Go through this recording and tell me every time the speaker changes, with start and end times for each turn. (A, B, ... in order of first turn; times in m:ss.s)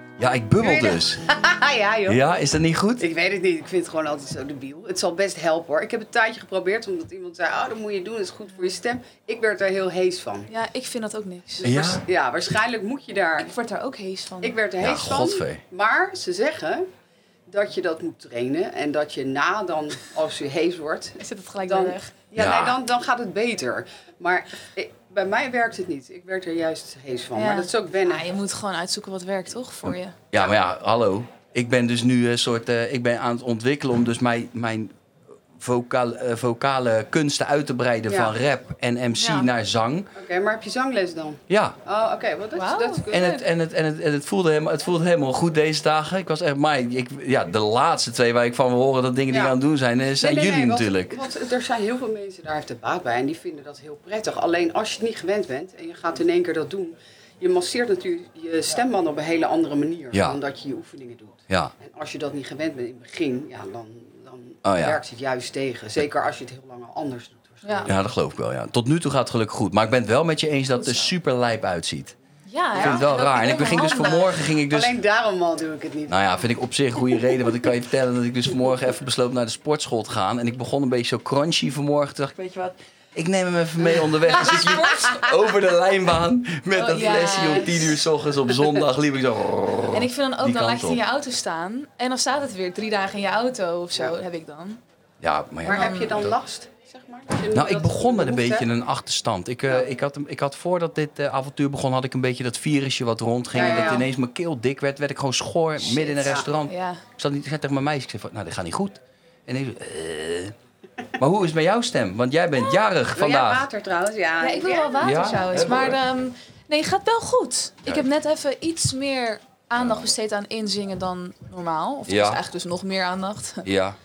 0:00.2-0:01.2 A
0:00.6-0:02.3 B
0:02.1-0:03.0 A
0:03.0-0:10.5 B
0:10.5-0:11.7 C
0:11.6-0:13.5 B
0:11.6-0:12.0 A
0:13.4-0:14.6 C
0:14.4-0:16.8 B
0:14.8-0:15.6 A
0:17.5-0:28.3 B
0:21.2-0:22.1 C
0:22.4-0:22.8 A
0:27.3-0:30.2 C
0:30.3-0:34.9 A
0:35.6-0:40.1 A
0:38.1-0:38.3 B
0:39.1-0:39.5 C
0:40.1-0:43.4 B
0:41.5-0:41.8 A
0:42.5-0:43.4 C
0:43.1-0:51.2 A
0:49.3-0:49.6 B
0:50.2-1:07.9 B
1:00.1-1:00.4 A
1:04.6-1:05.0 A
1:07.6-1:07.9 C
1:07.8-1:12.1 A
1:10.7-1:11.1 C
1:12.5-1:14.5 C
1:12.7-1:14.9 A
1:12.8-1:16.2 B
1:16.1-1:31.0 A
1:23.9-1:25.0 B
1:24.4-1:25.1 C
1:26.7-1:28.0 C
1:29.9-1:34.8 C
1:35.2-1:36.1 A
1:35.6-1:38.7 B
1:35.7-1:36.3 C
1:37.5-1:50.5 A
1:43.5-1:44.1 B
1:45.8-1:46.5 B
1:46.6-1:47.0 C
1:51.2-1:53.7 A
1:53.1-1:55.6 B
1:54.4-2:03.7 C
1:55.0-1:56.0 A
1:59.8-2:00.1 A
2:02.1-2:02.4 A
2:03.6-2:04.0 A